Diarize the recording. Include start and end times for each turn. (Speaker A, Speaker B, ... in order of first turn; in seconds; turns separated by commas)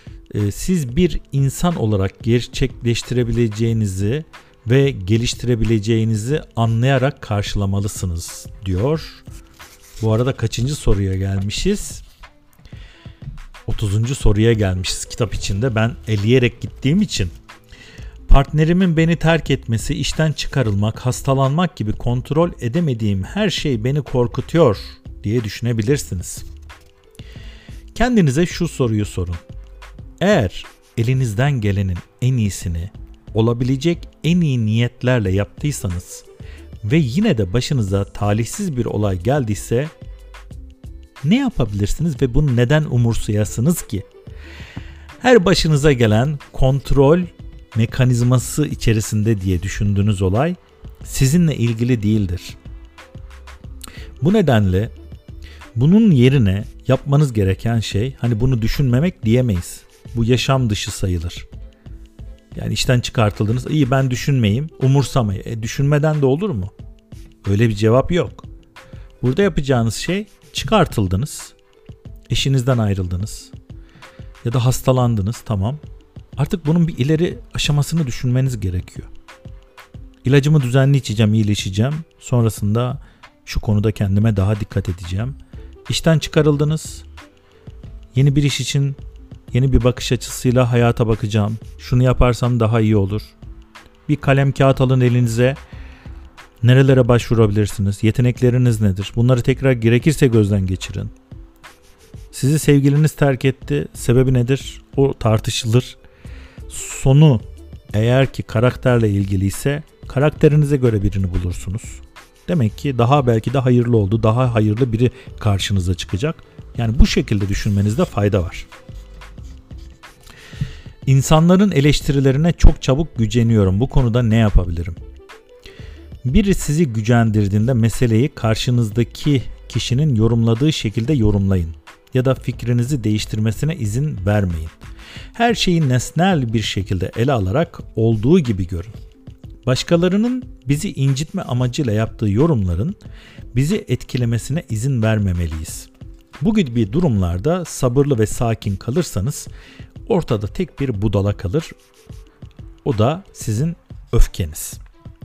Speaker A: 0.3-9.2, Speaker A: 10.0-12.0, Speaker A: 13.7-17.3, Speaker A: 18.3-26.5, Speaker A: 27.9-29.4, Speaker A: 30.2-36.3, Speaker A: 36.8-39.9, Speaker A: 41.2-44.1, Speaker A: 45.2-52.6, Speaker A: 54.2-54.9, Speaker A: 55.8-61.5, Speaker A: 62.5-66.7, Speaker A: 67.5-68.5, Speaker A: 69.2-71.5, Speaker A: 72.3-73.5, Speaker A: 74.4-75.8, Speaker A: 76.4-79.1, Speaker A: 80.2-85.4, Speaker A: 85.9-87.1, Speaker A: 88.1-89.0, Speaker A: 89.5-93.4, Speaker A: 94.1-95.6, Speaker A: 96.6-101.1, Speaker A: 102.3-106.0, Speaker A: 106.7-118.7, Speaker A: 121.1-125.0, Speaker A: 126.2-134.8, Speaker A: 135.3-138.9, Speaker A: 139.7-143.0, Speaker A: 143.5-145.9, Speaker A: 146.4-149.5, Speaker A: 150.1-151.7, Speaker A: 152.8-154.8